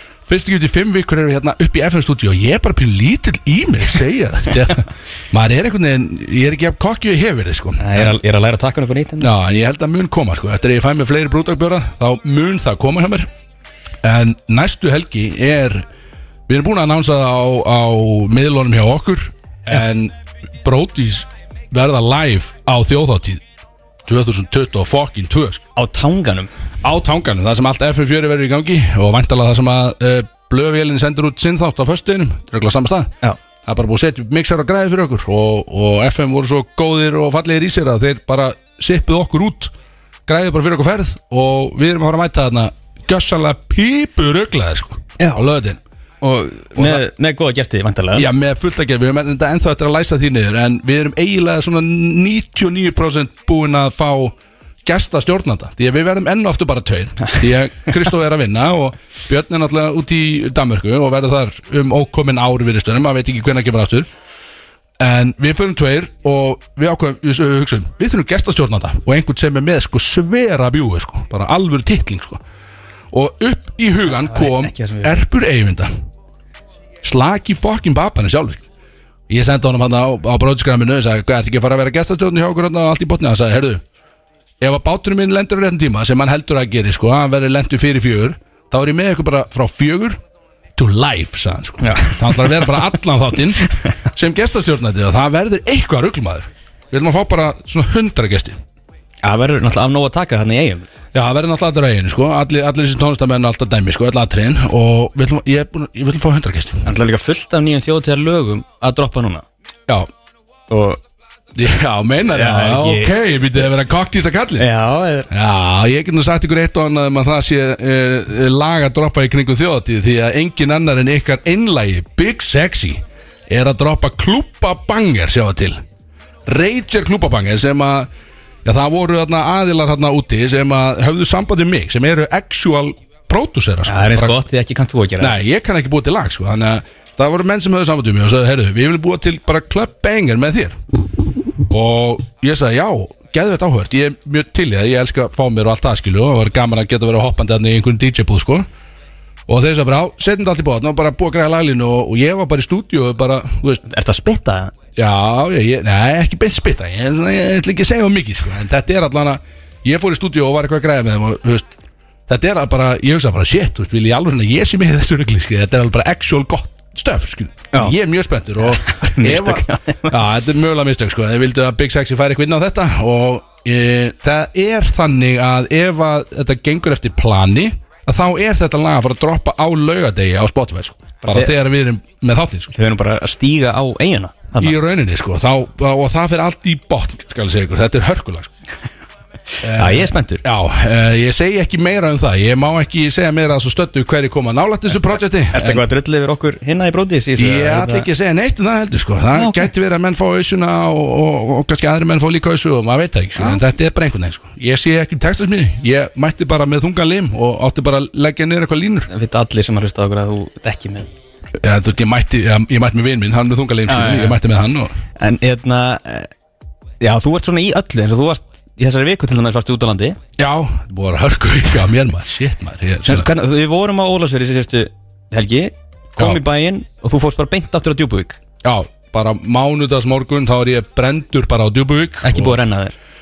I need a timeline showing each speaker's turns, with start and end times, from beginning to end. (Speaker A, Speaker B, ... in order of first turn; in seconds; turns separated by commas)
Speaker A: 0.2-8.2, Speaker B: 7.8-9.3, Speaker A: 9.2-13.3, Speaker A: 14.0-15.8, Speaker A: 16.5-23.4, Speaker A: 24.1-25.6, Speaker B: 25.8-26.5, Speaker A: 26.8-33.1, Speaker A: 33.6-39.7, Speaker A: 40.3-45.8, Speaker B: 46.2-48.3, Speaker A: 46.8-47.0, Speaker A: 48.1-64.1, Speaker A: 65.0-72.4, Speaker A: 73.1-75.9, Speaker B: 74.1-75.2, Speaker A: 77.0-78.6, Speaker A: 79.3-83.8, Speaker A: 84.6-90.2, Speaker A: 90.8-98.5, Speaker B: 91.8-92.7, Speaker B: 99.2-100.9, Speaker A: 101.1-106.9, Speaker B: 106.8-109.4, Speaker B: 110.7-111.0, Speaker A: 111.5-114.7, Speaker B: 112.3-113.1, Speaker B: 114.6-115.3, Speaker A: 115.3-125.8, Speaker A: 126.5-128.1, Speaker A: 128.6-134.4, Speaker B: 133.8-135.3, Speaker A: 135.2-140.8, Speaker A: 141.7-148.7, Speaker A: 149.5-153.8, Speaker B: 153.8-154.7, Speaker A: 155.0-161.7, Speaker A: 162.3-182.7, Speaker B: 168.6-170.2, Speaker B: 181.2-181.5, Speaker B: 182.7-184.7, Speaker A: 184.6-188.5, Speaker A: 189.6-195.8, Speaker B: 189.8-190.4, Speaker B: 195.5-198.1, Speaker A: 197.4-209.1, Speaker B: 199.3-199.7, Speaker B: 209.1-211.1, Speaker A: 211.6-214.9, Speaker B: 213.9-214.4, Speaker B: 215.2-216.3, Speaker B: 217.0-220.2, Speaker A: 220.4-223.3, Speaker B: 223.1-228.4, Speaker A: 228.6-232.6, Speaker B: 232.2-232.9